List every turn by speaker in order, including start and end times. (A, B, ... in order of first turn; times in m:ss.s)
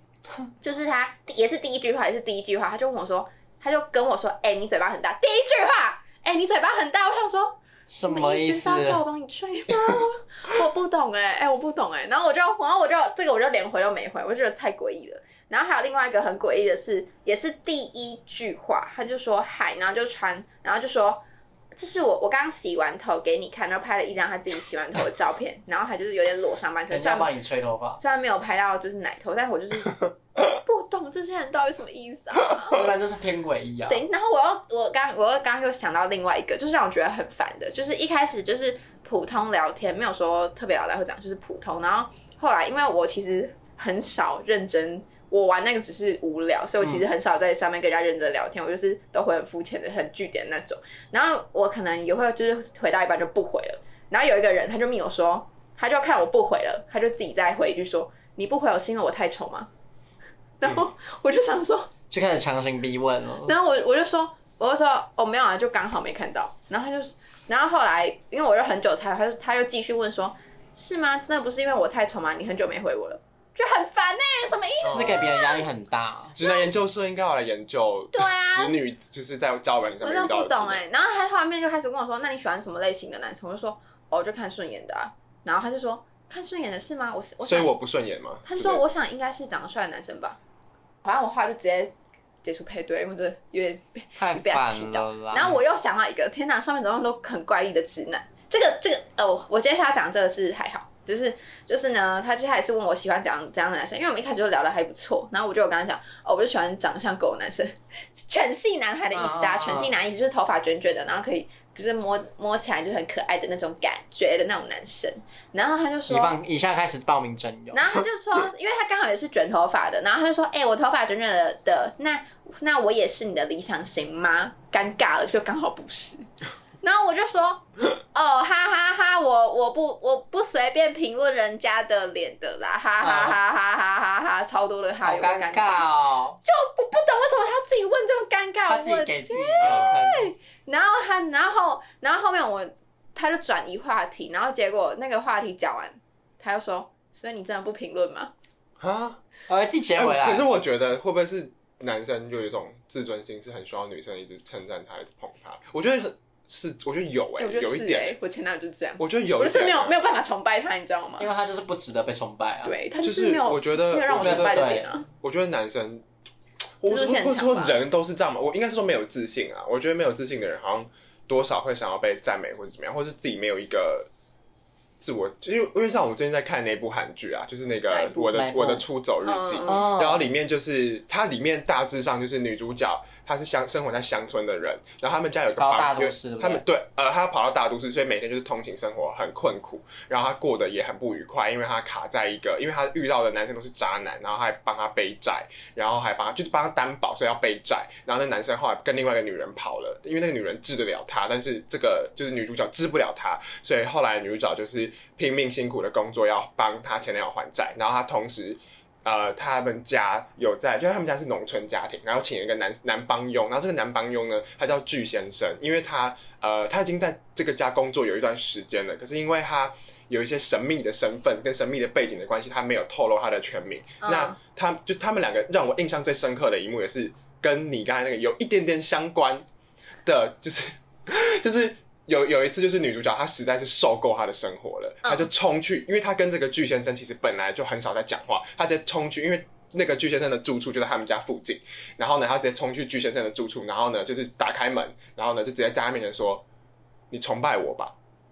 0:00.6-0:21.2 A
0:07.9-0:09.0 B
0:21.8-0:27.3 A
0:26.9-0:28.0 B
0:28.0-0:32.9 A
0:32.7-0:34.0 B
0:33.9-0:59.7 A
1:00.6-1:01.9 A
1:02.1-1:03.5 B
1:03.4-1:15.7 A
1:14.8-1:16.4 B
1:14.9-1:15.2 C
1:16.4-1:20.8 C
1:16.4-1:16.7 A
1:18.1-1:18.8 A
1:20.0-1:27.7 A
1:27.4-1:28.8 C
1:28.4-1:30.4 A
1:31.0-1:56.4 A
1:34.2-1:35.6 B
1:49.1-1:50.0 B
1:56.1-1:57.8 B
1:57.7-2:06.3 A
2:06.8-2:15.9 A
2:13.0-2:13.4 B
2:15.0-2:16.4 B
2:16.4-2:28.3 A
2:18.7-2:20.3 B
2:19.6-2:20.0 C
2:28.8-2:29.2 C
2:29.5-2:30.5 B
2:30.0-2:38.2 C
2:37.4-2:41.3 A
2:39.0-2:40.0 C
2:41.2-2:42.8 B
2:42.6-2:45.1 A
2:43.0-2:44.7 C
2:44.2-2:44.9 B
2:45.2-2:46.0 C
2:46.8-2:54.1 C
2:46.9-2:47.8 A
2:55.0-3:49.5 C
2:57.9-2:58.3 A
2:58.2-2:58.8 B
2:59.2-2:59.9 A
2:59.7-3:00.3 B
3:05.6-3:06.6 B
3:44.0-3:44.4 A
3:50.0-4:06.4 C
3:55.0-3:55.3 A
4:07.1-4:07.9 C